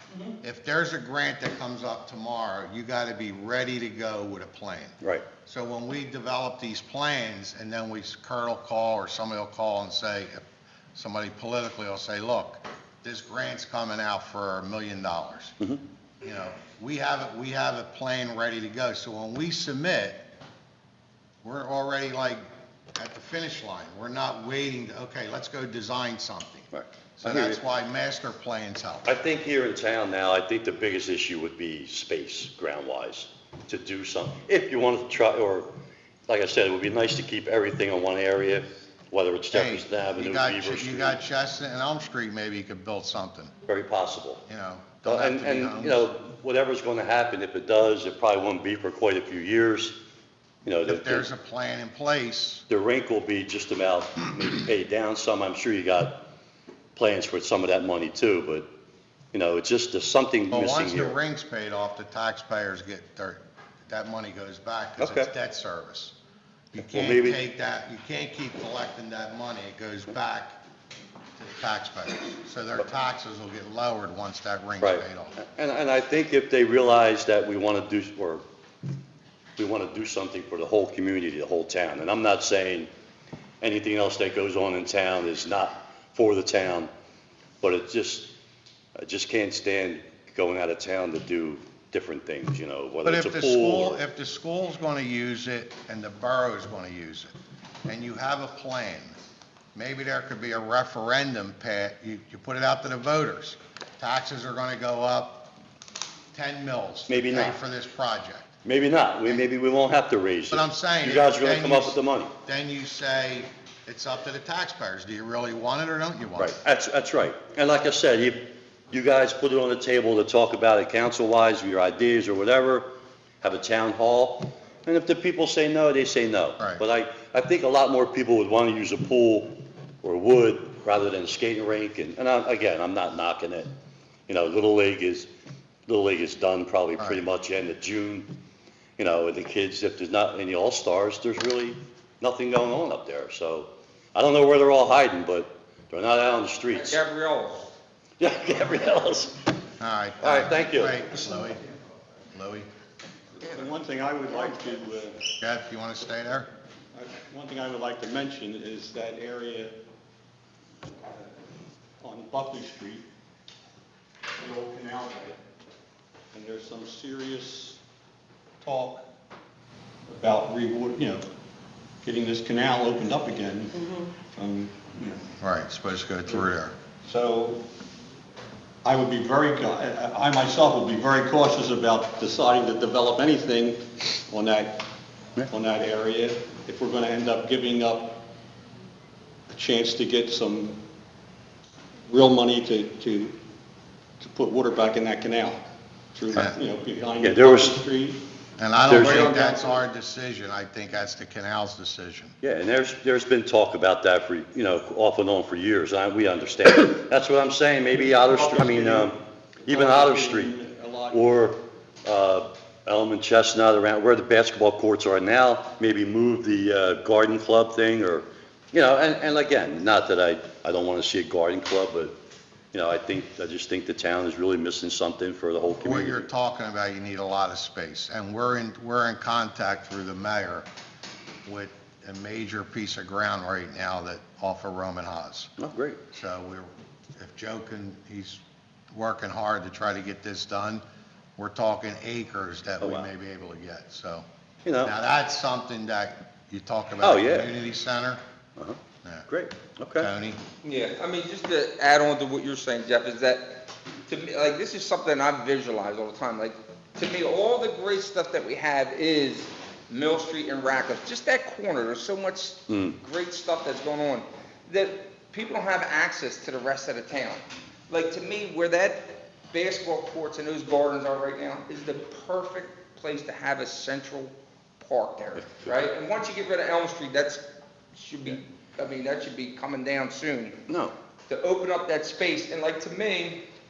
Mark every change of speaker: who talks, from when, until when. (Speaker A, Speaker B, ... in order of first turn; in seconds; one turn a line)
Speaker A: 0.4-10.4
Speaker B: 5.0-5.3
Speaker A: 10.9-15.6
Speaker A: 16.2-20.3
Speaker A: 21.4-22.4
Speaker A: 22.9-29.1
Speaker B: 26.7-27.6
Speaker B: 29.0-35.7
Speaker B: 36.3-41.2
Speaker A: 39.5-43.5
Speaker B: 43.6-44.4
Speaker A: 44.5-46.1
Speaker B: 45.0-50.0
Speaker B: 50.6-51.2
Speaker A: 50.8-52.6
Speaker B: 52.7-56.2
Speaker B: 57.0-58.7
Speaker B: 59.3-61.2
Speaker A: 60.5-66.2
Speaker B: 65.0-65.3
Speaker A: 66.7-70.6
Speaker B: 66.8-67.4
Speaker A: 71.4-75.3
Speaker B: 74.8-78.4
Speaker B: 79.6-82.9
Speaker B: 83.6-86.9
Speaker B: 87.6-88.3
Speaker B: 89.0-94.0
Speaker A: 93.0-97.3
Speaker A: 97.8-99.2
Speaker A: 99.7-105.5
Speaker A: 106.3-108.5
Speaker B: 107.1-107.6
Speaker B: 108.6-112.3
Speaker A: 110.5-116.5
Speaker B: 116.4-133.7
Speaker B: 134.3-135.3
Speaker B: 135.9-138.3
Speaker A: 137.0-137.2
Speaker B: 139.0-147.0
Speaker C: 146.7-147.7
Speaker B: 148.2-149.4
Speaker A: 149.8-151.7
Speaker B: 150.2-151.1
Speaker A: 152.3-152.7
Speaker D: 153.4-155.2
Speaker A: 155.4-156.5
Speaker D: 156.9-159.8
Speaker D: 161.0-161.3
Speaker D: 162.0-163.1
Speaker D: 164.4-165.4
Speaker D: 166.3-167.8
Speaker D: 168.6-169.1
Speaker D: 170.1-171.2
Speaker D: 172.0-175.2
Speaker A: 175.4-176.7
Speaker D: 177.0-177.6
Speaker D: 178.8-184.8
Speaker D: 185.5-188.2
Speaker D: 189.5-190.8
Speaker D: 192.1-193.3
Speaker D: 194.2-195.6
Speaker D: 196.1-198.2
Speaker B: 197.2-197.8
Speaker A: 198.6-202.3
Speaker B: 198.9-199.4
Speaker D: 198.9-199.7
Speaker B: 202.4-210.6
Speaker D: 208.2-211.3
Speaker B: 211.1-222.1
Speaker B: 222.7-226.3
Speaker A: 225.8-230.7
Speaker A: 231.4-235.5
Speaker B: 235.6-236.0
Speaker A: 236.1-238.4
Speaker A: 238.9-240.8
Speaker A: 241.4-244.2
Speaker B: 242.8-243.1
Speaker B: 244.6-244.9
Speaker A: 244.8-248.2
Speaker B: 247.0-247.5
Speaker B: 248.6-250.1
Speaker A: 249.9-250.4
Speaker C: 250.6-280.6
Speaker B: 262.7-263.0
Speaker B: 275.4-275.9
Speaker B: 280.7-280.9
Speaker C: 281.3-283.4